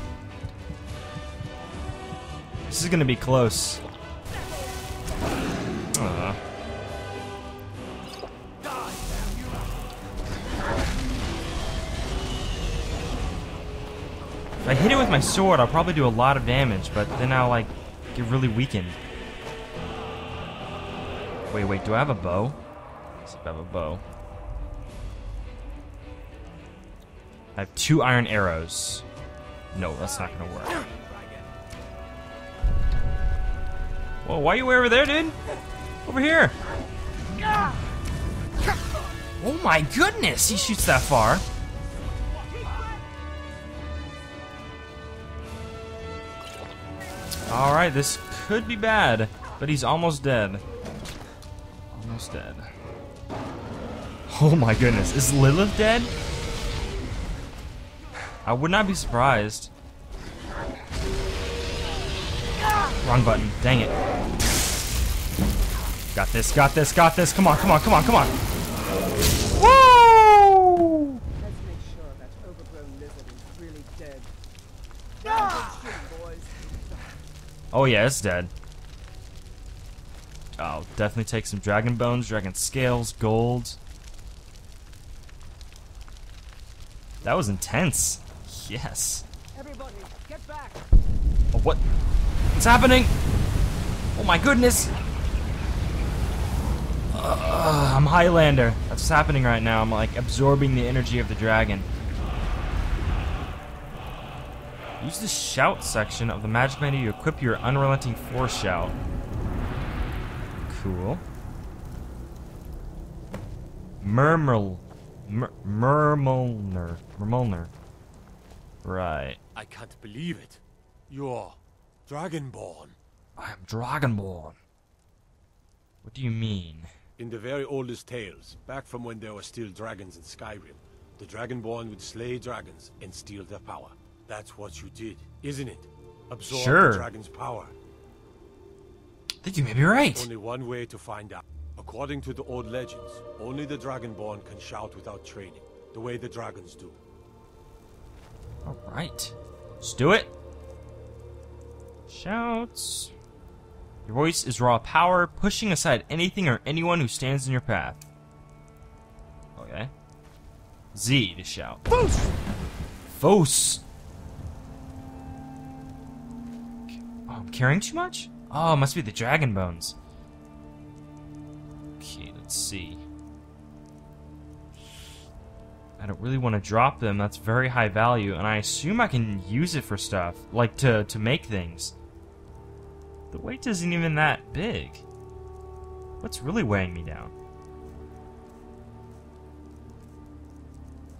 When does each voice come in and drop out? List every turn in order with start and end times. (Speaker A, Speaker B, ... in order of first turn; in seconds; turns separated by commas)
Speaker A: 2.7-3.8, Speaker A: 5.9-6.4, Speaker A: 14.6-19.0, Speaker A: 21.5-22.6, Speaker A: 23.2-24.0, Speaker A: 27.5-29.0, Speaker A: 29.7-30.8, Speaker A: 34.2-35.4, Speaker A: 36.0-36.5, Speaker A: 39.4-41.4, Speaker A: 47.5-50.6, Speaker A: 51.9-52.7, Speaker A: 54.3-56.1, Speaker A: 58.4-59.7, Speaker A: 63.0-63.9, Speaker A: 66.1-68.3, Speaker A: 69.5-71.2, Speaker B: 71.4-74.3, Speaker B: 75.2-77.0, Speaker A: 77.7-78.5, Speaker A: 80.6-83.8, Speaker A: 87.2-89.2, Speaker B: 89.5-90.9, Speaker A: 91.5-91.8, Speaker A: 92.5-93.1, Speaker A: 94.1-94.9, Speaker A: 97.1-101.9, Speaker A: 105.0-109.0, Speaker A: 110.7-111.2, Speaker A: 114.0-117.7, Speaker A: 118.8-119.4, Speaker C: 119.5-123.0, Speaker A: 123.4-124.6, Speaker A: 126.0-126.9, Speaker C: 127.2-137.7, Speaker A: 136.5-137.1, Speaker A: 139.4-140.3, Speaker C: 140.1-147.0, Speaker A: 148.6-150.3, Speaker A: 152.1-153.1, Speaker A: 154.0-158.0, Speaker A: 159.6-159.9, Speaker A: 160.9-161.8, Speaker A: 163.1-163.8, Speaker A: 166.9-169.9, Speaker A: 172.0-173.0, Speaker A: 176.0-181.9, Speaker A: 183.3-185.0, Speaker A: 186.2-187.3